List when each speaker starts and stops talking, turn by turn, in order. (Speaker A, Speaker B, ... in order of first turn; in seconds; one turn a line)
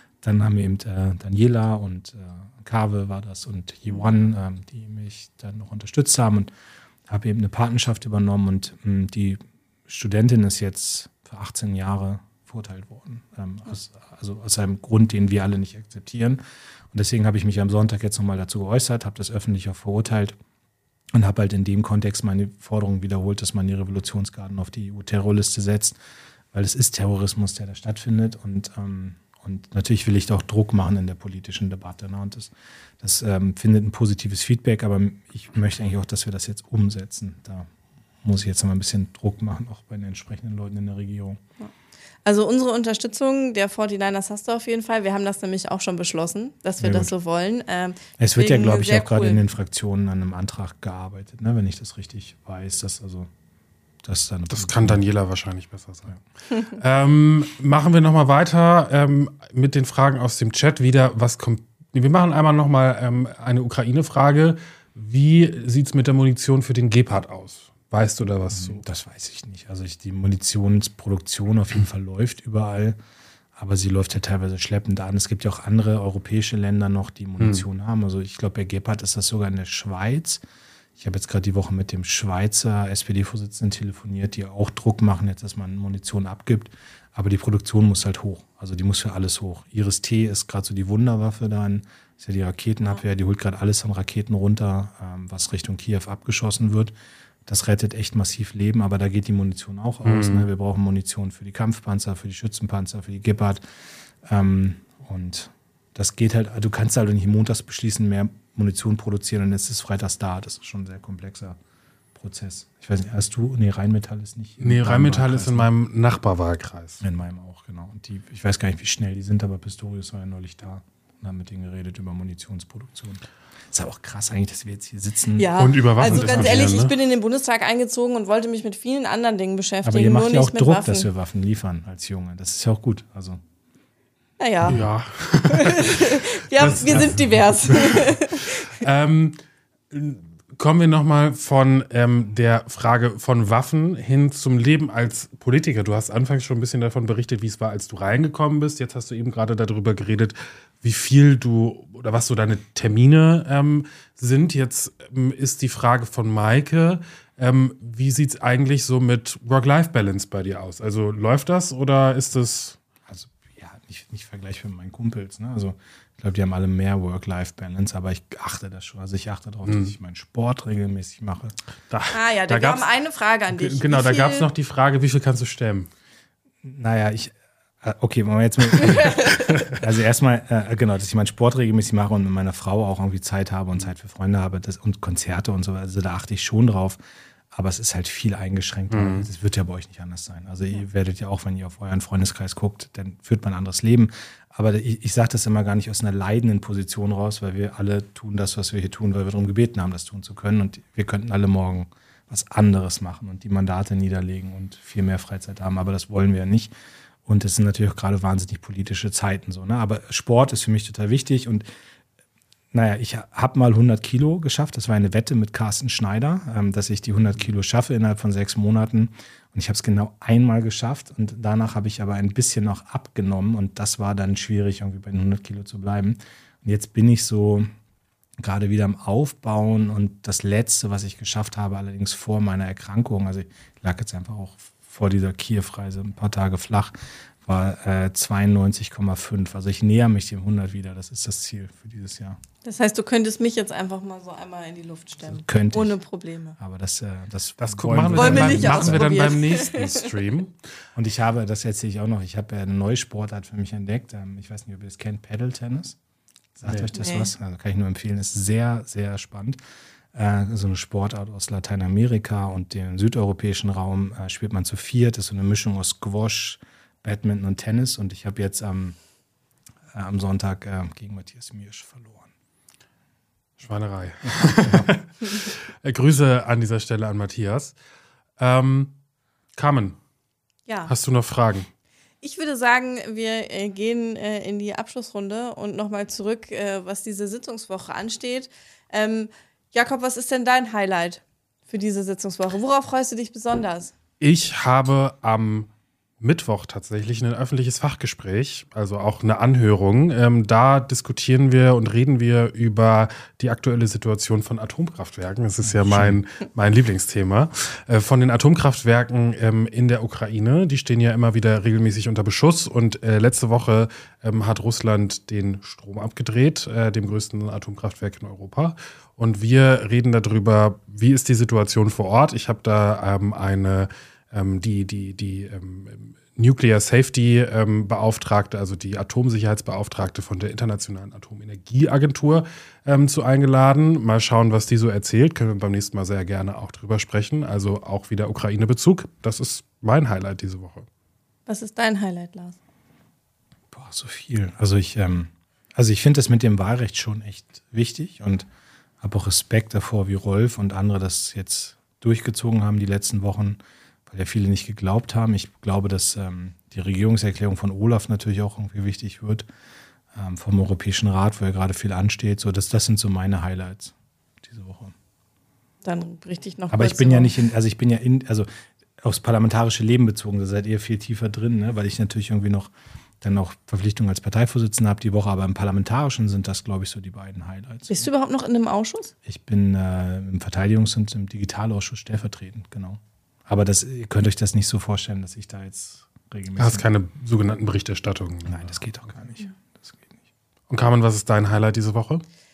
Speaker A: 0.2-6.5
Speaker A: 7.1-16.4
Speaker A: 16.9-20.4
Speaker A: 21.1-26.0
Speaker A: 26.5-37.7
Speaker A: 38.2-41.4
Speaker B: 42.2-49.4
Speaker A: 46.8-47.1
Speaker A: 48.2-53.3
Speaker A: 54.0-55.0
Speaker C: 54.5-68.8
Speaker A: 68.5-73.0
Speaker A: 73.5-80.4
Speaker A: 81.0-96.9
Speaker A: 97.5-103.6
Speaker C: 100.0-100.5
Speaker A: 104.2-111.6
Speaker A: 112.1-115.7
Speaker C: 114.6-117.0
Speaker A: 117.0-126.8
Speaker B: 125.4-131.1
Speaker C: 125.5-126.9
Speaker A: 129.8-133.4
Speaker B: 134.4-134.8
Speaker C: 134.7-139.4
Speaker B: 135.4-138.8
Speaker C: 139.9-162.8
Speaker A: 163.1-171.5
Speaker C: 169.7-169.9
Speaker C: 171.9-172.9
Speaker B: 172.1-174.5
Speaker C: 173.5-175.9
Speaker A: 176.6-187.0
Speaker C: 178.8-179.8
Speaker B: 179.0-179.4
Speaker A: 187.5-206.7
Speaker C: 188.9-189.3
Speaker A: 207.2-211.6
Speaker A: 212.7-227.7
Speaker A: 228.4-236.9
Speaker A: 237.4-242.4
Speaker B: 242.6-246.6
Speaker A: 245.2-245.9
Speaker A: 246.6-249.3
Speaker C: 247.6-250.5
Speaker B: 248.1-250.0
Speaker A: 250.9-256.0
Speaker A: 256.6-259.6
Speaker B: 256.9-257.3
Speaker A: 260.1-269.0
Speaker A: 269.9-272.3
Speaker C: 273.6-277.7
Speaker C: 278.4-278.9
Speaker C: 279.6-280.0
Speaker B: 280.7-280.9
Speaker C: 280.9-281.7
Speaker B: 282.2-293.9
Speaker C: 294.2-295.7
Speaker C: 296.2-340.9
Speaker A: 305.6-306.2
Speaker B: 341.5-342.6
Speaker A: 343.7-348.4
Speaker A: 349.0-359.4
Speaker A: 360.1-364.9
Speaker B: 365.8-367.4
Speaker A: 366.7-368.5
Speaker A: 369.0-378.1
Speaker B: 377.9-379.1
Speaker A: 379.2-386.9
Speaker C: 386.6-388.8
Speaker A: 388.4-390.2
Speaker C: 390.7-392.2